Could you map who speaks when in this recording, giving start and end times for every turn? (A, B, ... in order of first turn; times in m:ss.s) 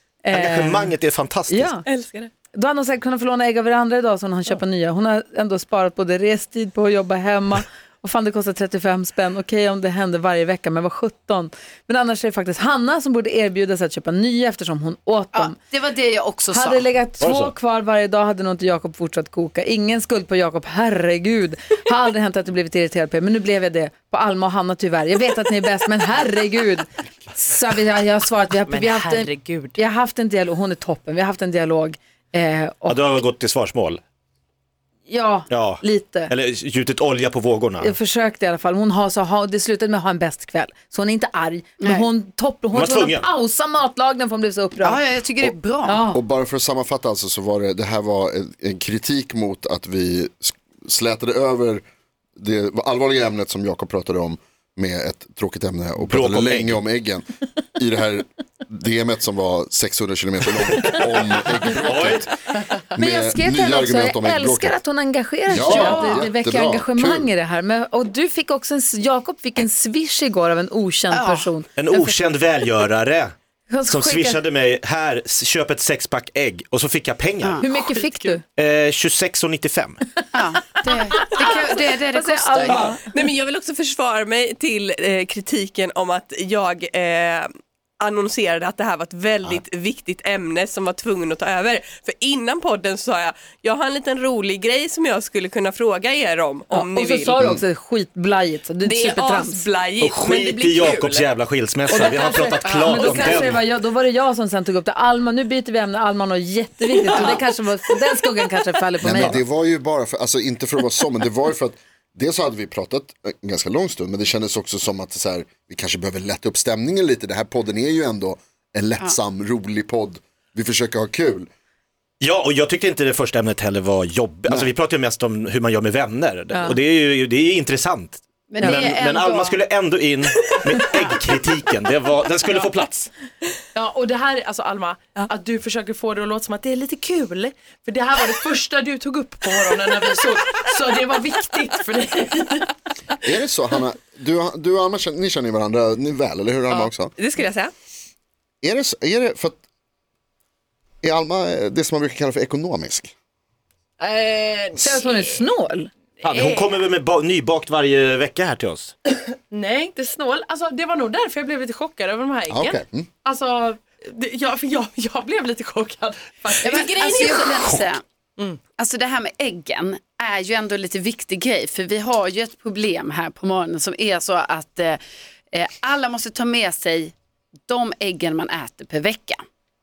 0:00.2-0:00.9 A
0:00.3-0:01.7 B
0:01.5-0:01.8 A
0:01.9-0:02.3 C
0:02.5-0:15.6 A
0:15.3-0:16.9 D
0:16.5-0:33.0 A
0:17.2-0:17.5 B
0:32.9-0:34.0 B
0:35.1-0:36.3 A
0:35.5-0:37.9 B
0:37.8-0:45.0 A
0:41.8-0:42.1 D
0:42.7-0:43.3 B
0:44.8-0:46.0 D
0:45.8-0:46.2 A
0:46.1-0:51.8 E
0:52.4-1:02.3 E
0:56.1-0:56.8 B
1:00.8-1:01.1 B
1:01.8-1:02.3 B
1:03.0-1:04.8 E
1:03.0-1:12.2 A
1:05.5-1:07.3 E
1:05.7-1:06.1 B
1:11.1-1:11.5 D
1:11.8-1:13.3 B
1:13.7-1:14.4 A
1:13.9-1:17.6 B
1:17.6-1:18.4 A
1:18.6-1:20.0 B
1:20.3-1:22.9 D
1:22.1-1:23.0 A
1:22.7-1:27.5 C
1:28.0-1:37.4 C
1:36.7-1:39.6 A
1:38.8-1:41.3 C
1:40.0-1:43.6 B
1:41.9-1:49.4 A
1:42.6-1:43.4 D
1:47.2-1:47.4 D
1:49.0-2:01.5 E
2:02.2-2:13.1 B
2:08.5-2:09.6 D
2:13.7-2:22.7 F
2:23.2-2:27.1 E
2:26.7-2:27.7 C
2:28.6-2:29.6 E
2:31.0-2:33.1 E
2:34.0-2:35.0 F
2:34.8-2:35.9 A
2:36.2-2:38.9 B
2:36.2-2:36.8 F
2:39.5-2:47.7 F
2:42.5-2:43.1 E
2:46.6-2:48.0 D
2:48.8-2:55.0 D
2:55.5-2:57.1 D
2:57.7-2:59.4 D